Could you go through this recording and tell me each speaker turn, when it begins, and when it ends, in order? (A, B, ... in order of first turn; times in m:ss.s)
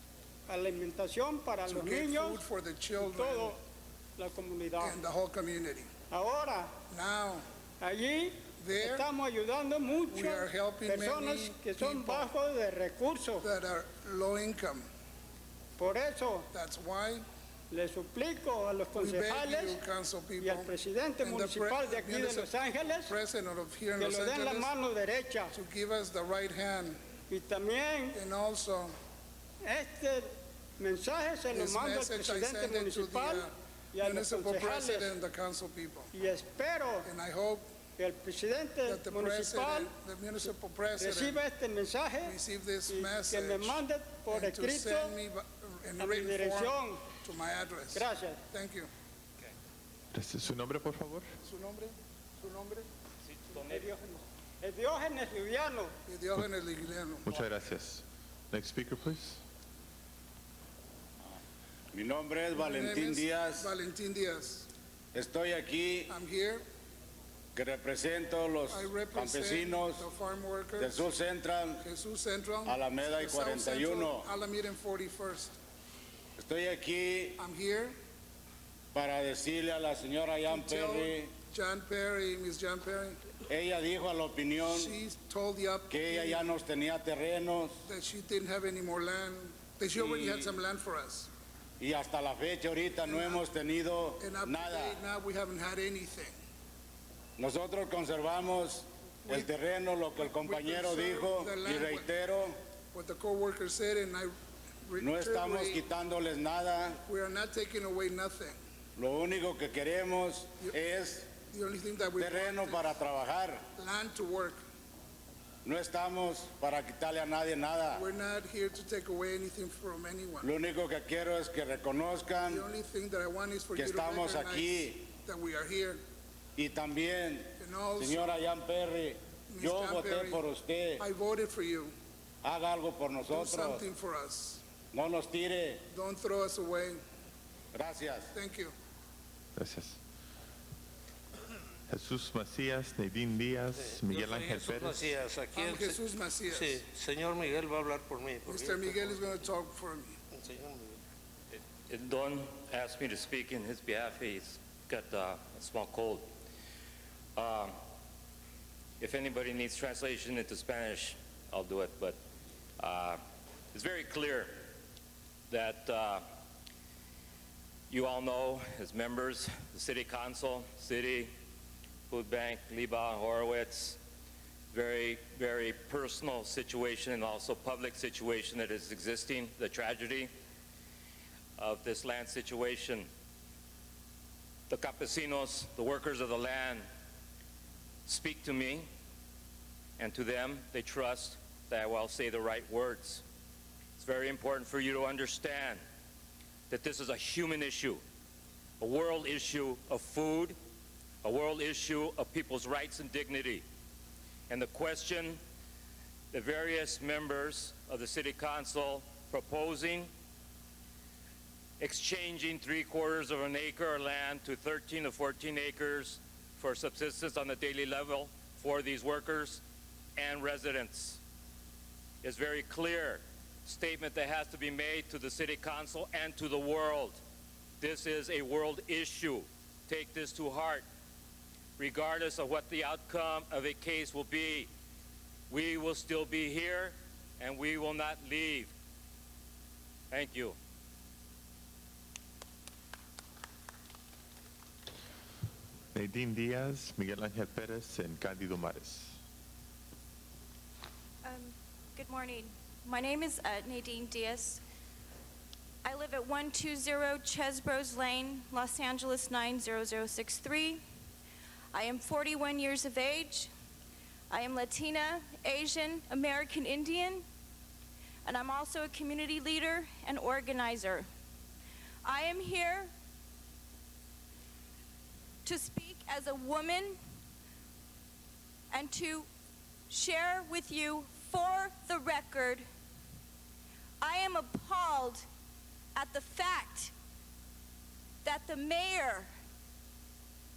0:00.5-0:02.4 A
0:01.7-0:03.6 B
0:03.0-0:03.6 A
0:04.2-0:05.0 A
0:04.8-0:05.9 B
0:06.1-0:06.7 A
0:06.9-0:07.4 B
0:07.8-0:13.5 A
0:08.6-0:09.1 B
0:10.1-0:12.3 B
0:13.4-0:14.8 B
0:15.8-0:16.5 A
0:16.5-0:17.2 B
0:17.7-0:19.8 A
0:18.9-0:22.5 B
0:20.4-0:23.1 A
0:23.0-0:24.7 B
0:24.0-0:25.5 A
0:25.5-0:27.0 B
0:27.3-0:28.2 A
0:28.1-0:28.9 B
0:29.6-0:35.2 A
0:31.5-0:33.5 B
0:34.0-0:36.1 B
0:36.1-0:37.1 A
0:37.0-0:37.7 B
0:38.0-0:39.9 A
0:38.8-0:41.4 B
0:41.0-0:42.4 A
0:42.2-0:48.9 B
0:42.9-0:45.2 A
0:46.0-0:47.1 A
0:47.9-0:48.4 A
0:50.1-0:51.2 C
0:51.4-0:52.8 B
0:53.2-0:53.9 D
0:53.7-0:55.9 A
0:56.1-0:57.5 B
0:57.2-0:59.4 C
1:01.9-1:03.7 E
1:02.5-1:04.7 B
1:05.1-1:06.1 E
1:06.1-1:06.6 B
1:07.5-1:10.0 E
1:08.7-1:11.0 B
1:10.8-1:11.8 E
1:11.8-1:15.5 B
1:12.6-1:14.3 E
1:16.4-1:17.4 E
1:17.4-1:18.0 B
1:18.9-1:21.3 E
1:20.5-1:23.2 B
1:23.5-1:24.9 E
1:24.7-1:26.4 B
1:25.9-1:27.8 E
1:27.9-1:31.3 B
1:29.9-1:30.5 E
1:31.8-1:35.0 E
1:33.1-1:33.4 B
1:34.2-1:36.4 B
1:37.4-1:42.6 E
1:40.3-1:42.0 B
1:42.9-1:44.3 B
1:44.8-1:45.8 B
1:45.0-1:47.0 E
1:47.0-1:48.6 B
1:49.0-1:51.3 E
1:51.5-1:52.9 B
1:52.2-1:53.6 E
1:53.7-1:54.6 B
1:55.6-1:58.0 E
1:57.9-2:00.5 B
2:00.4-2:02.6 E
2:02.5-2:06.0 B
2:03.8-2:05.1 E
2:06.6-2:11.0 E
2:07.6-2:08.2 B
2:09.5-2:10.4 B
2:11.0-2:11.9 B
2:12.4-2:13.8 E
2:13.3-2:14.6 B
2:14.9-2:15.8 E
2:15.9-2:17.0 B
2:17.7-2:18.3 E
2:18.3-2:18.7 B
2:19.6-2:20.0 C
2:21.9-2:25.1 C
2:23.8-2:29.2 F
2:25.5-2:26.8 B
2:28.4-2:30.1 B
2:30.3-2:31.0 F
2:31.5-2:36.3 D
2:37.4-2:37.8 D
2:39.0-2:42.2 D
2:42.8-2:43.2 D
2:43.7-2:44.6 D
2:45.5-2:46.2 D
2:47.9-2:51.3 D
2:52.1-2:54.0 D
2:54.7-3:00.3 D
3:01.6-3:03.1 D
3:04.7-3:06.8 D
3:08.0-3:08.9 D
3:10.0-3:13.2 D
3:14.0-3:15.8 D
3:16.7-3:18.0 D
3:18.8-3:20.6 D
3:21.2-3:23.6 D
3:24.5-3:25.4 D
3:26.3-3:30.1 D
3:31.8-3:39.6 D
3:40.2-3:41.2 D
3:42.2-3:47.2 D
3:47.8-3:50.8 D
3:51.8-3:54.7 D
3:55.5-3:58.7 D
4:00.1-4:00.6 D
4:05.9-4:09.2 C
4:11.2-4:14.6 G
4:15.8-4:20.8 G
4:21.7-4:23.5 G
4:24.3-4:27.2 G
4:28.2-4:31.0 G
4:32.0-4:32.9 G
4:35.4-4:37.0 G
4:38.7-4:39.3 G
4:39.9-4:42.6 G
4:44.0-4:45.2 G
4:45.9-4:46.9 G
4:48.2-4:49.3 G